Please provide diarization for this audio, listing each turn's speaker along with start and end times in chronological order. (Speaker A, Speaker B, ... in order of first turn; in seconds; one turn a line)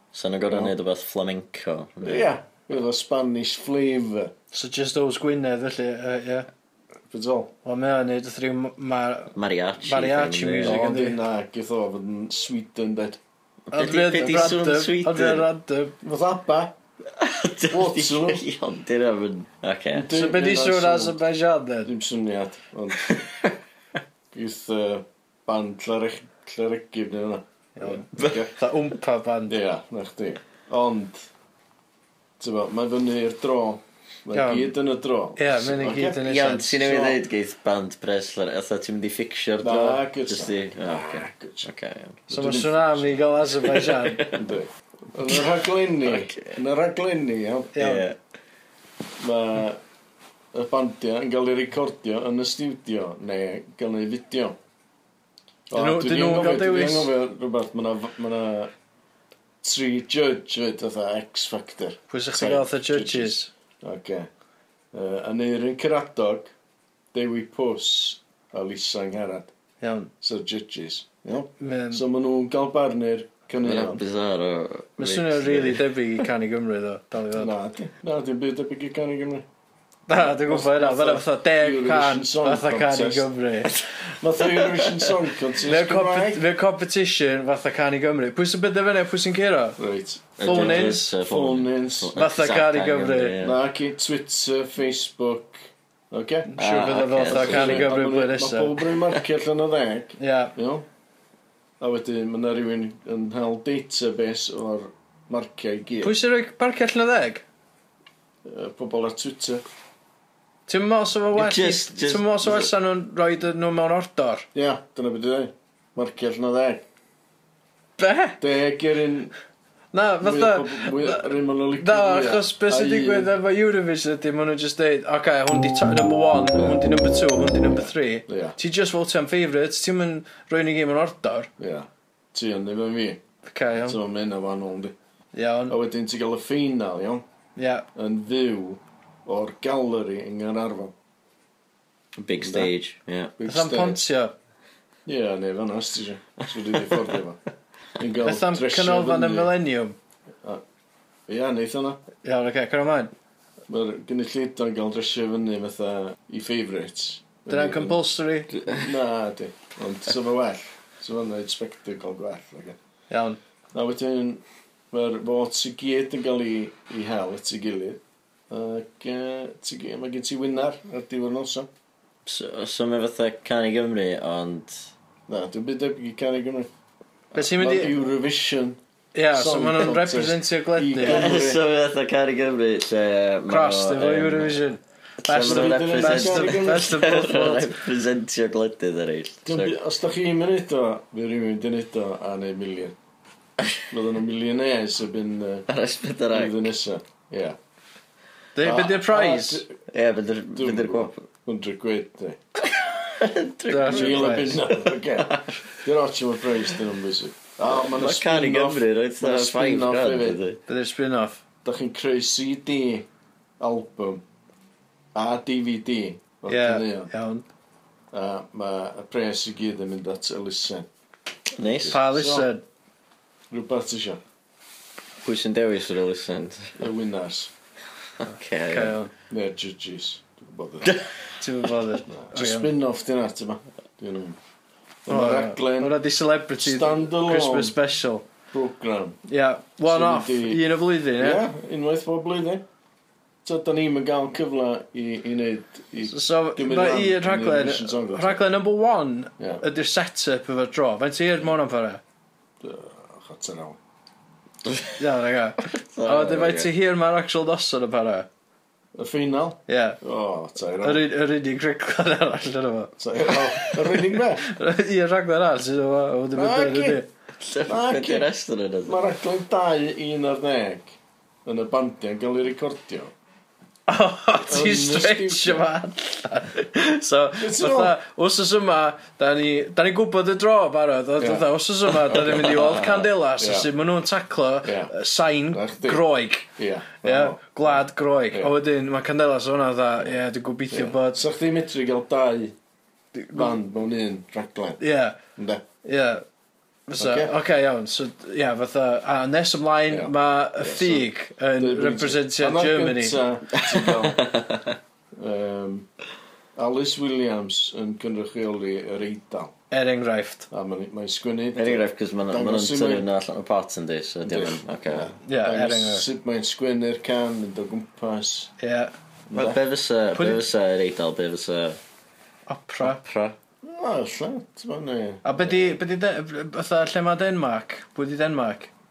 Speaker A: 0.1-2.3
Speaker B: 0.5-0.7
Speaker B: 2.0-4.3
Speaker C: 4.5-6.5
Speaker B: 7.1-7.5
Speaker C: 7.7-11.2
Speaker A: 9.3-10.8
Speaker B: 10.6-13.2
Speaker A: 13.7-15.5
Speaker C: 13.7-15.9
Speaker B: 16.0-16.8
Speaker A: 17.2-20.1
Speaker B: 17.7-18.4
Speaker B: 19.9-21.2
Speaker C: 20.1-21.9
Speaker B: 21.9-23.2
Speaker A: 23.1-23.5
Speaker B: 24.3-28.5
Speaker C: 27.8-29.6
Speaker B: 29.5-31.3
Speaker B: 32.4-37.2
Speaker C: 34.3-34.8
Speaker C: 35.4-36.8
Speaker A: 36.2-42.2
Speaker B: 39.6-41.7
Speaker B: 42.3-43.2
Speaker C: 42.3-44.3
Speaker A: 43.7-44.4
Speaker B: 44.3-47.8
Speaker A: 46.0-46.6
Speaker C: 47.8-48.0
Speaker A: 47.8-48.2
Speaker B: 49.2-49.8
Speaker B: 50.5-54.6
Speaker B: 55.7-58.7
Speaker C: 55.8-57.1
Speaker B: 59.6-64.3
Speaker C: 62.1-63.5
Speaker B: 64.9-66.5
Speaker B: 67.1-69.5
Speaker C: 69.8-70.1
Speaker B: 70.2-74.0
Speaker C: 71.6-72.0
Speaker A: 73.6-75.9
Speaker C: 75.0-77.5
Speaker B: 77.3-79.5
Speaker C: 80.1-83.7
Speaker B: 80.2-83.3
Speaker B: 84.0-86.4
Speaker C: 85.6-89.8
Speaker B: 89.8-92.2
Speaker C: 90.4-91.1
Speaker A: 90.4-93.6
Speaker C: 92.2-93.4
Speaker B: 93.4-96.5
Speaker C: 96.5-98.8
Speaker A: 96.6-97.9
Speaker B: 97.2-100.9
Speaker C: 100.2-100.5
Speaker B: 101.8-106.2
Speaker C: 106.0-107.4
Speaker B: 108.4-109.6
Speaker C: 110.7-114.5
Speaker A: 111.3-112.7
Speaker B: 114.5-116.9
Speaker C: 118.0-118.4
Speaker B: 118.4-119.3
Speaker C: 119.9-131.5
Speaker B: 120.2-123.3
Speaker B: 126.5-126.9
Speaker B: 127.7-128.6
Speaker B: 131.6-133.2
Speaker C: 133.5-134.0
Speaker B: 133.8-134.9
Speaker C: 135.3-135.8
Speaker B: 135.7-137.2
Speaker C: 137.6-137.8
Speaker B: 137.9-140.9
Speaker A: 142.2-143.3
Speaker B: 142.4-142.7
Speaker B: 143.4-144.0
Speaker C: 143.5-144.3
Speaker B: 145.1-147.4
Speaker B: 148.0-149.6
Speaker C: 148.2-150.0
Speaker B: 151.3-152.0
Speaker C: 152.2-153.1
Speaker B: 153.7-158.0
Speaker C: 157.5-158.6
Speaker B: 158.6-162.8
Speaker C: 163.1-163.4
Speaker B: 163.7-171.7
Speaker A: 172.3-174.9
Speaker B: 175.3-176.7
Speaker C: 177.3-177.9
Speaker B: 177.4-178.8
Speaker C: 179.2-181.4
Speaker B: 179.3-181.6
Speaker A: 181.0-184.6
Speaker C: 183.5-187.8
Speaker A: 185.2-189.8
Speaker B: 185.3-187.5
Speaker B: 189.5-193.0
Speaker B: 193.9-195.7
Speaker A: 195.7-196.7
Speaker B: 196.3-197.6
Speaker C: 198.6-199.6
Speaker B: 198.6-199.8
Speaker A: 199.9-201.2
Speaker B: 200.6-202.4
Speaker A: 202.6-205.6
Speaker C: 203.7-204.6
Speaker B: 203.8-210.4
Speaker A: 207.7-210.6
Speaker C: 210.7-211.4
Speaker B: 211.6-213.1
Speaker B: 213.6-214.2
Speaker B: 215.1-217.1
Speaker C: 216.5-217.4
Speaker B: 218.1-220.9
Speaker A: 221.6-222.0
Speaker B: 221.6-222.5
Speaker C: 221.9-222.6
Speaker B: 223.5-224.2
Speaker A: 225.2-226.9
Speaker B: 226.8-227.5
Speaker A: 228.2-229.0
Speaker C: 228.7-229.1
Speaker B: 229.3-231.0
Speaker A: 230.8-231.1
Speaker C: 231.4-232.7
Speaker B: 232.1-234.4
Speaker B: 235.1-236.0
Speaker C: 235.1-238.3
Speaker B: 236.6-237.8
Speaker B: 238.5-239.2
Speaker C: 239.3-241.4
Speaker B: 239.8-240.7
Speaker B: 241.2-242.7
Speaker B: 243.4-248.4
Speaker C: 246.1-252.0
Speaker B: 249.4-249.6
Speaker B: 252.6-253.8
Speaker A: 254.7-254.9
Speaker C: 255.0-258.3
Speaker A: 255.7-256.7
Speaker B: 258.9-261.1
Speaker C: 259.7-260.0
Speaker C: 260.8-267.1
Speaker B: 263.0-264.5
Speaker B: 266.3-267.0
Speaker A: 267.4-269.0
Speaker B: 267.7-268.3
Speaker B: 268.9-273.1
Speaker C: 273.9-286.5
Speaker B: 274.5-275.7
Speaker B: 277.4-278.0
Speaker B: 281.2-281.5
Speaker B: 282.1-282.5
Speaker A: 282.4-283.0
Speaker B: 283.4-283.7
Speaker B: 284.6-284.9
Speaker B: 285.5-286.0
Speaker B: 286.6-288.5
Speaker C: 287.0-291.2
Speaker B: 290.7-292.6
Speaker C: 293.1-293.6
Speaker B: 293.3-294.8
Speaker C: 294.8-295.2
Speaker B: 295.4-295.6
Speaker C: 295.8-296.2
Speaker C: 296.9-303.2
Speaker B: 297.0-297.4
Speaker B: 299.9-304.4
Speaker A: 303.5-304.8
Speaker B: 305.2-305.9
Speaker B: 306.6-309.5
Speaker C: 309.7-310.5
Speaker B: 310.5-313.1
Speaker A: 311.6-315.1
Speaker B: 314.2-318.5
Speaker C: 315.2-316.1
Speaker C: 318.6-318.9
Speaker B: 319.3-319.6
Speaker A: 319.3-321.8
Speaker C: 320.1-320.5
Speaker C: 322.5-323.0
Speaker A: 322.8-323.4
Speaker B: 323.6-325.8
Speaker C: 325.2-328.7